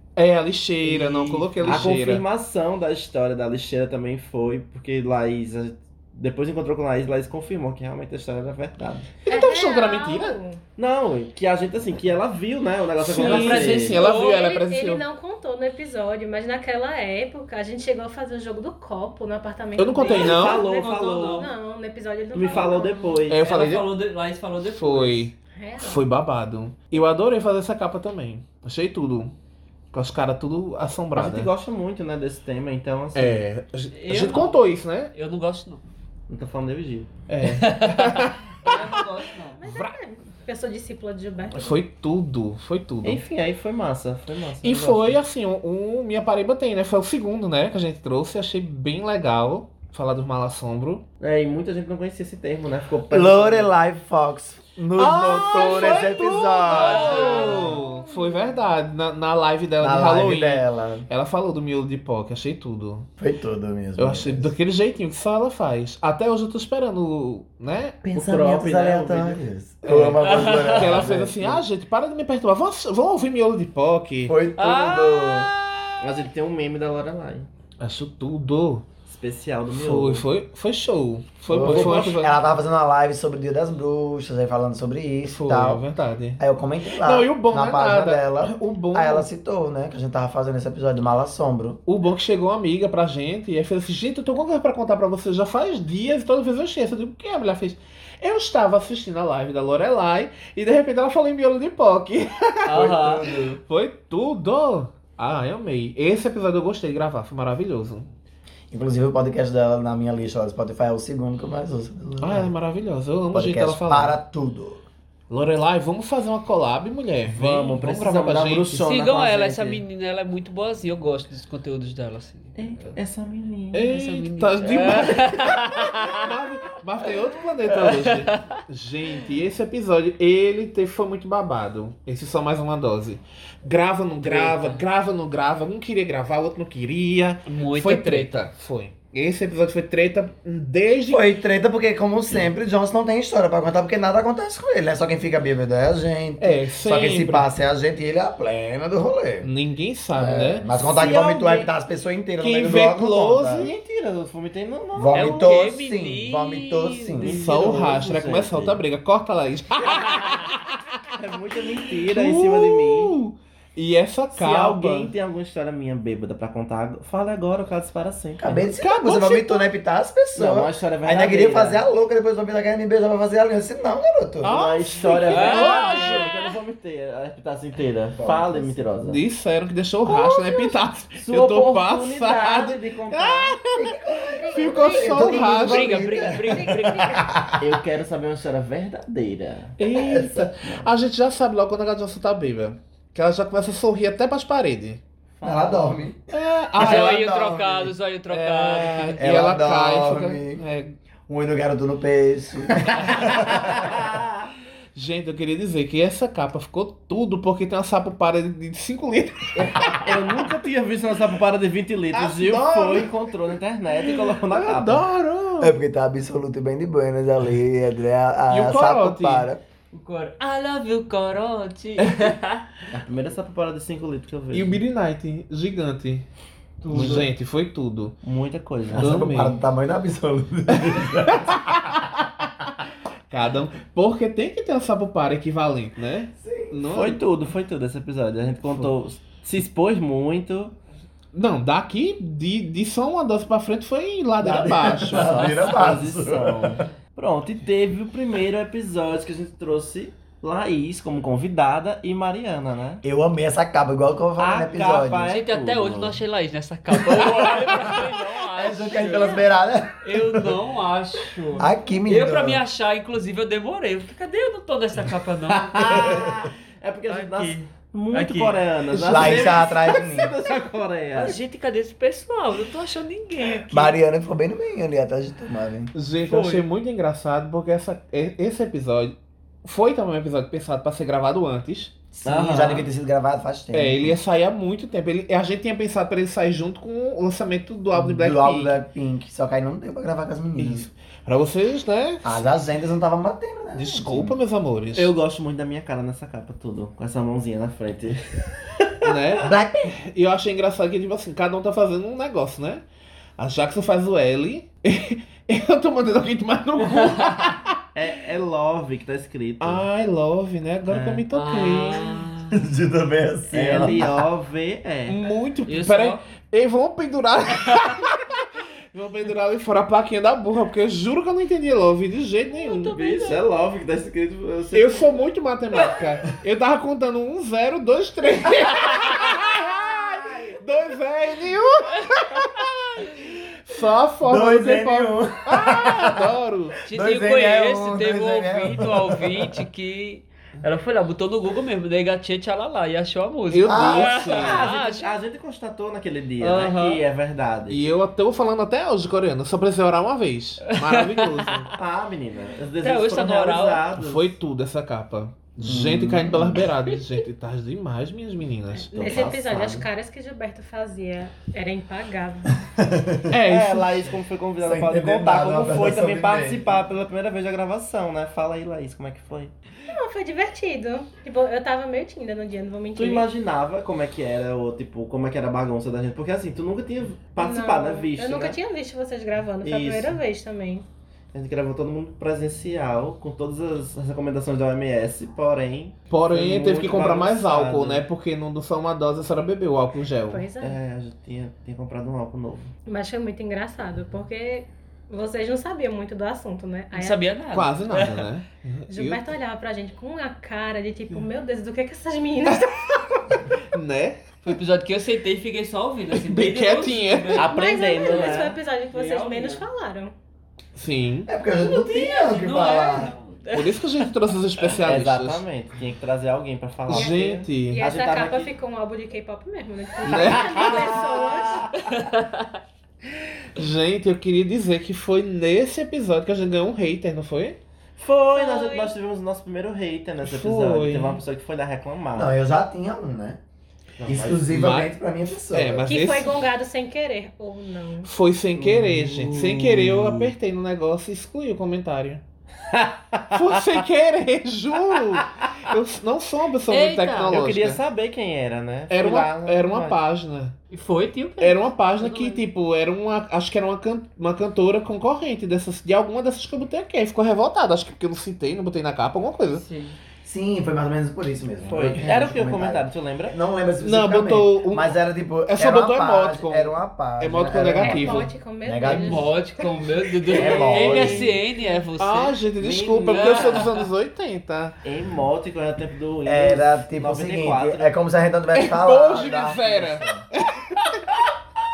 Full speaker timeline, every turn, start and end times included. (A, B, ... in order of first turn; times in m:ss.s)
0:00.2-0:02.2 A
0:00.8-0:09.2 B
0:09.3-0:10.4 A
0:09.3-0:10.6 C
0:10.8-0:14.0 B
0:13.0-0:15.0 A
0:13.1-0:14.5 D
0:14.0-0:23.2 C
0:19.8-0:20.7 A
0:20.0-0:21.5 B
0:20.1-0:21.5 D
0:22.3-0:23.5 B
0:23.3-0:23.9 A
0:23.3-0:25.3 D
0:24.6-0:29.3 A
0:25.5-0:26.0 C
0:29.9-0:31.5 A
0:31.2-0:33.4 B
0:33.1-0:35.1 A
0:33.9-0:35.8 D
0:36.3-0:37.1 B
0:37.3-0:39.0 A
0:37.5-0:39.6 D
0:39.6-0:41.8 C
0:39.6-0:40.0 A
0:41.5-0:43.2 A
0:43.0-0:45.2 B
0:44.6-0:51.0 A
0:51.2-0:53.7 B
0:53.1-0:57.8 E
0:55.0-1:03.1 A
0:56.7-0:57.8 D
0:59.8-1:01.1 E
1:03.2-1:04.5 E
1:04.0-1:08.0 A
1:08.0-1:11.6 E
1:08.1-1:09.4 B
1:09.8-1:14.4 A
1:10.2-1:10.9 D
1:14.3-1:15.5 E
1:14.6-1:16.0 D
1:16.0-1:17.5 B
1:17.8-1:18.9 A
1:19.1-1:20.2 B
1:19.7-1:22.3 A
1:21.5-1:25.8 E
1:21.6-1:22.2 B
1:25.3-1:26.4 A
1:26.4-1:31.8 E
1:27.0-1:29.3 A
1:31.9-1:43.0 A
1:42.7-1:43.3 D
1:42.7-1:43.6 E
1:43.7-1:48.1 A
1:48.7-1:52.5 E
1:52.2-1:54.2 A
1:53.3-1:54.8 E
1:55.3-1:58.8 A
1:57.3-1:59.8 B
1:58.8-2:02.9 D
2:02.6-2:03.9 B
2:03.7-2:21.3 A
2:03.9-2:06.3 D
2:07.7-2:08.6 D
2:14.2-2:14.8 D
2:17.5-2:18.4 D
2:21.1-2:29.5 E
2:26.4-2:27.5 A
2:29.4-2:30.7 A
2:30.1-2:33.7 E
2:30.7-2:31.7 B
2:32.4-2:33.8 A
2:33.5-2:35.5 B
2:35.0-2:37.4 E
2:35.1-2:37.4 D
2:37.2-2:38.8 B
2:37.2-2:40.8 A
2:39.8-2:40.1 B
2:40.1-2:40.4 D
2:41.2-2:43.2 B
2:42.0-2:45.1 A
2:44.3-2:48.7 B
2:48.4-2:54.6 E
2:48.8-2:49.7 A
2:50.3-2:51.8 B
2:54.4-2:56.3 A
2:54.5-2:59.2 B
2:55.3-2:56.6 D
2:58.2-2:58.9 E
2:59.0-3:05.9 A
3:00.1-3:00.8 E
3:01.1-3:03.6 B
3:03.7-3:07.8 E
3:04.4-3:07.2 C
3:04.7-3:07.3 D
3:07.6-3:10.9 B
3:09.8-3:15.0 A
3:10.0-3:10.5 E
3:15.4-3:16.0 B
3:15.4-3:17.9 E
3:16.3-3:17.2 A
3:16.8-3:19.2 D
3:18.3-3:21.0 A
3:19.2-3:20.6 E
3:21.3-3:24.1 E
3:25.0-3:30.5 A
3:30.0-3:35.1 B
3:32.1-3:33.1 A
3:34.0-3:35.8 A
3:35.6-3:39.6 E
3:38.5-3:39.5 A
3:39.9-3:42.6 D
3:43.0-3:44.8 B
3:44.5-3:46.2 A
3:46.8-3:47.2 D
3:46.9-3:48.2 A
3:46.9-3:47.3 B
3:48.2-3:49.2 B
3:48.9-3:51.9 E
3:49.0-3:49.6 A
3:50.7-3:52.5 A
3:53.3-3:57.2 A
3:56.4-3:56.8 E
3:56.9-4:00.8 B
3:58.7-3:58.9 A
4:01.3-4:05.6 A
4:04.4-4:06.8 E
4:05.2-4:13.0 B
4:13.0-4:15.4 E
4:14.4-4:16.2 B
4:15.3-4:19.5 D
4:18.6-4:20.4 E
4:20.0-4:26.2 D
4:21.6-4:22.6 E
4:25.7-4:26.2 A
4:25.8-4:31.4 B
4:27.1-4:28.6 D
4:29.0-4:30.3 E
4:29.0-4:29.4 A
4:31.2-4:34.0 D
4:33.7-4:35.9 E
4:35.9-4:41.9 A
4:36.2-4:36.6 D
4:42.2-4:44.2 E
4:42.2-4:42.9 B
4:42.6-4:42.8 D
4:43.7-4:48.8 A
4:47.9-4:50.9 E
4:50.6-4:52.4 A
4:52.2-4:54.4 E
4:53.8-4:55.1 A
4:55.0-4:59.4 B
4:59.0-5:02.8 A
4:59.4-4:59.9 E
5:03.4-5:07.8 A
5:07.0-5:07.6 D
5:08.0-5:09.8 B
5:09.6-5:12.3 A
5:10.9-5:11.2 B
5:11.3-5:12.6 D
5:12.5-5:14.2 E
5:13.5-5:15.2 B
5:15.1-5:23.0 A
5:15.7-5:16.2 D
5:22.6-5:23.4 C
5:22.9-5:25.2 B
5:24.7-5:36.8 A
5:34.2-5:36.3 E
5:36.9-5:45.2 D
5:36.9-5:39.6 E
5:43.5-5:44.7 A
5:43.6-5:44.2 E
5:44.1-5:47.8 B
5:46.4-5:47.0 D
5:47.7-5:51.7 A
5:50.7-5:51.7 D
5:51.7-5:54.4 B
5:52.8-5:53.8 D
5:54.0-5:59.2 A
5:55.6-5:56.7 E
5:58.8-6:02.6 C
5:59.0-5:59.5 B
5:59.0-5:59.8 E
6:02.8-6:03.4 E
6:03.3-6:04.2 A
6:03.5-6:09.5 B
6:04.6-6:06.8 E
6:09.9-6:13.3 C
6:13.0-6:18.6 B
6:17.4-6:20.9 C
6:19.6-6:20.2 B
6:21.3-6:28.0 B
6:26.1-6:30.5 A
6:30.3-6:30.8 C
6:30.6-6:32.7 B
6:32.9-6:37.3 C
6:36.9-6:38.2 D
6:37.5-6:39.2 A
6:38.9-6:43.0 C
6:43.3-6:44.2 A
6:44.4-6:49.7 D
6:46.1-6:47.5 A
6:47.4-6:48.6 B
6:47.4-6:50.1 C
6:50.8-6:51.3 A
6:51.3-6:53.1 E
6:51.6-6:54.1 D
6:53.5-6:55.4 A
6:54.8-6:58.5 B
6:56.9-6:57.8 A
6:56.9-7:01.7 C
7:00.0-7:01.0 A
7:00.0-7:02.0 B
7:01.9-7:02.5 D
7:03.6-7:07.6 A
7:08.0-7:12.3 B
7:08.3-7:08.9 C
7:10.2-7:11.2 A
7:12.2-7:13.4 E
7:14.0-7:14.6 B
7:14.1-7:15.9 E
7:14.5-7:14.9 A
7:15.5-7:16.4 A
7:15.8-7:18.1 C
7:18.1-7:22.2 A
7:18.6-7:20.3 B
7:22.7-7:23.6 B
7:23.3-7:27.8 A
7:26.7-7:27.4 D
7:27.3-7:30.0 B
7:28.9-7:30.6 A
7:30.7-7:32.4 D
7:31.4-7:39.6 A
7:39.6-7:40.0 D
7:40.2-7:49.3 E
7:41.6-7:43.4 B
7:43.8-7:48.3 A
7:47.8-7:49.4 C
7:48.8-7:52.4 D
7:50.3-7:51.4 E
7:50.4-7:51.1 A
7:50.5-7:51.3 B
7:52.0-7:54.8 A
7:52.6-7:53.6 B
7:53.1-7:53.9 D
7:54.8-7:57.9 B
7:56.2-8:00.2 E
7:58.5-8:01.1 A